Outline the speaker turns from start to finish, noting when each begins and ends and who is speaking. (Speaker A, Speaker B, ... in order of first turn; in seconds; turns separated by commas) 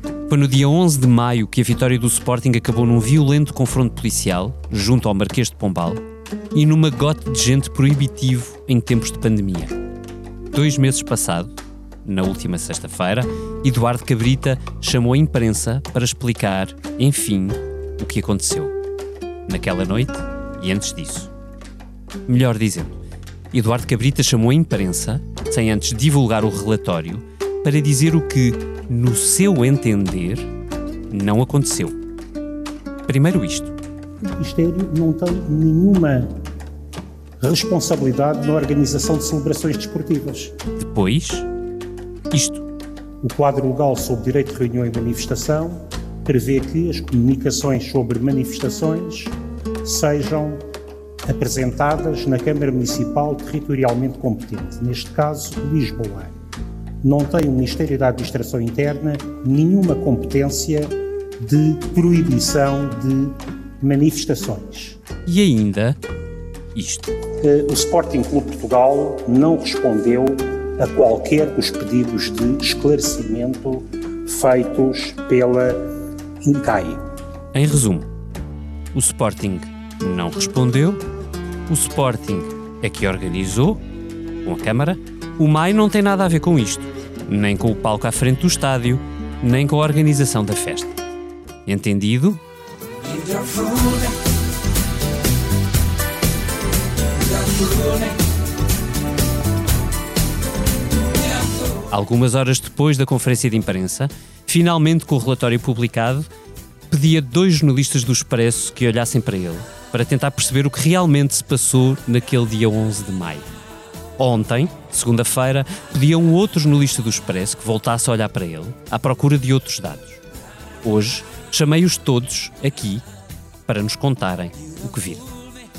Speaker A: 0.3-6.0, Speaker A: 6.5-9.7, Speaker A: 10.5-11.5, Speaker A: 12.1-18.7, Speaker A: 19.5-21.3, Speaker A: 22.3-23.0, Speaker A: 23.5-30.5, Speaker A: 31.1-32.0, Speaker A: 33.1-33.8, Speaker B: 34.2-36.4, Speaker B: 37.4-40.5, Speaker A: 40.8-41.5, Speaker A: 42.3-42.6, Speaker B: 43.2-49.3, Speaker B: 49.9-50.6, Speaker B: 51.3-56.4, Speaker B: 57.0-65.0, Speaker A: 65.2-66.0, Speaker A: 66.8-67.1, Speaker B: 67.4-75.8, Speaker B: 76.4-77.0, Speaker A: 77.5-78.1, Speaker A: 78.9-81.0, Speaker A: 81.7-83.8, Speaker A: 84.4-91.0, Speaker A: 91.7-92.4, Speaker A: 101.9-106.3, Speaker A: 106.9-113.5, Speaker A: 114.2-120.2, Speaker A: 120.8-123.0, Speaker A: 123.7-125.3